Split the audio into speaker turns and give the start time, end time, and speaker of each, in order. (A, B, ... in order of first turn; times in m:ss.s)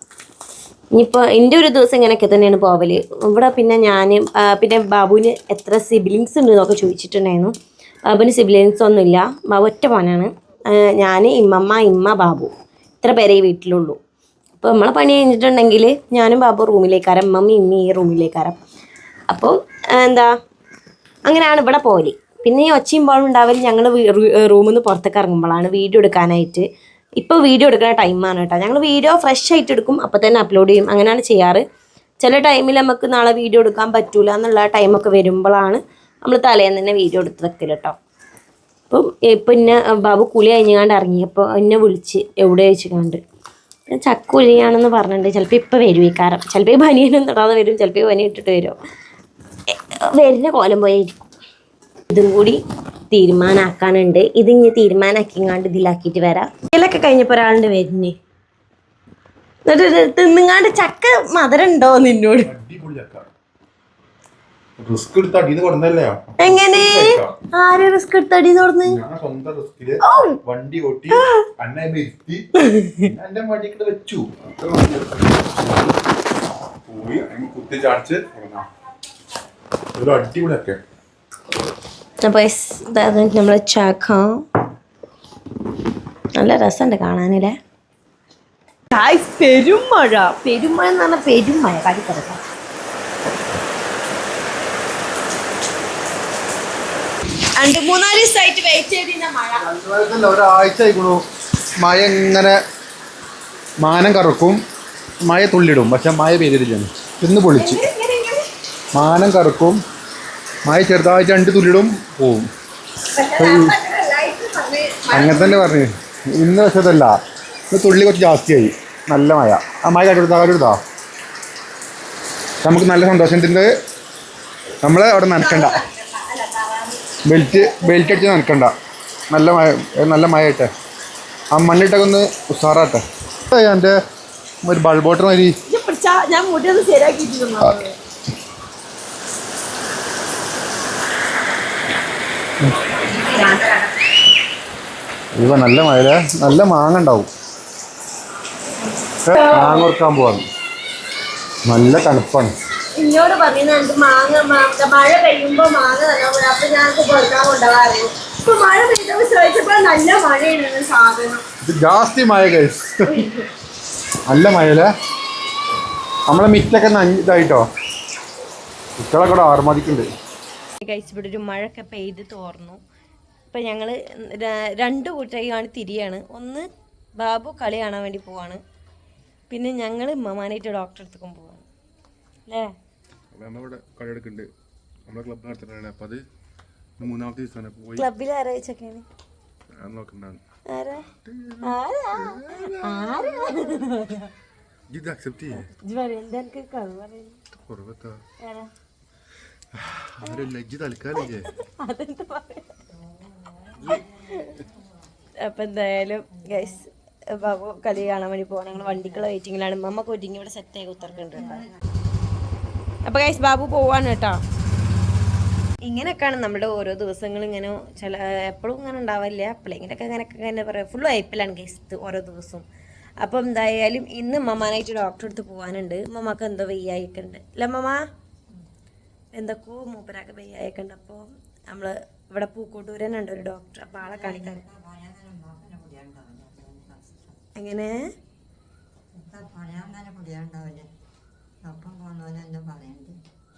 0:00.9-0:07.5 A
0:08.1-0:14.0 A
0:14.6-0:18.6 A
0:19.3-0:20.3 A
0:21.3-0:26.7 A
0:27.2-0:31.6 A
0:32.2-0:38.0 A
0:38.9-0:43.2 A
0:43.9-0:48.8 A
0:49.7-0:51.3 A
0:52.1-0:58.2 A
0:59.7-1:02.5 A
1:02.4-1:03.2 B
1:04.8-1:07.4 B
1:06.4-1:09.0 A
1:08.8-1:12.4 B
1:10.0-1:10.4 A
1:11.1-1:11.4 A
1:12.6-1:13.1 A
1:13.0-1:15.7 B
1:16.9-1:18.7 B
1:20.0-1:20.8 B
1:22.2-1:24.4 A
1:26.4-1:27.6 A
1:28.9-1:32.4 A
1:37.6-1:39.7 A
1:39.6-1:41.2 B
1:41.8-1:42.6 B
1:43.8-1:44.6 B
1:45.2-1:47.8 B
1:47.5-1:48.4 A
1:48.9-1:49.8 B
1:50.6-1:52.5 B
1:53.1-1:55.7 A
1:53.4-1:53.8 B
1:55.1-1:57.2 B
1:57.7-2:00.8 B
2:02.6-2:03.7 B
2:04.8-2:05.8 B
2:05.4-2:08.2 A
2:07.3-2:08.7 B
2:09.3-2:10.7 B
2:11.5-2:14.0 B
2:14.6-2:15.6 B
2:15.7-2:18.0 A
2:23.1-2:23.9 A
2:25.4-2:27.3 B
2:29.2-2:30.4 B
2:29.3-2:29.9 A
2:31.7-2:32.5 B
2:32.9-2:41.4 A
2:41.6-2:43.3 B
2:43.1-2:43.4 A
2:44.3-2:44.9 B
2:46.3-2:47.6 B
2:49.0-2:50.1 B
2:50.8-2:52.8 A
2:53.5-2:56.7 A
2:57.2-2:58.6 A
2:59.5-3:01.7 A
3:02.5-3:02.7 A
3:03.3-3:04.5 C
3:03.4-3:04.5 B
3:05.1-3:06.2 C
3:05.1-3:06.2 B
3:07.0-3:08.0 C
3:07.0-3:08.0 B
3:08.0-3:09.0 A
3:09.8-3:10.4 B
3:10.7-3:11.1 A
3:11.2-3:13.3 C
3:11.6-3:14.3 A
3:14.9-3:15.6 C
3:15.5-3:17.4 A
3:17.7-3:18.2 C
3:18.4-3:18.7 A
3:19.9-3:21.6 C
3:20.2-3:20.5 A
3:21.2-3:23.0 A
3:23.8-3:24.7 A
3:25.4-3:31.7 A
3:33.0-3:34.4 A
3:35.8-3:42.7 A
3:43.2-3:48.0 A
3:49.3-3:54.7 A
3:54.7-3:57.2 D
3:57.6-3:58.1 A
3:59.2-4:00.9 D
4:01.6-4:03.2 D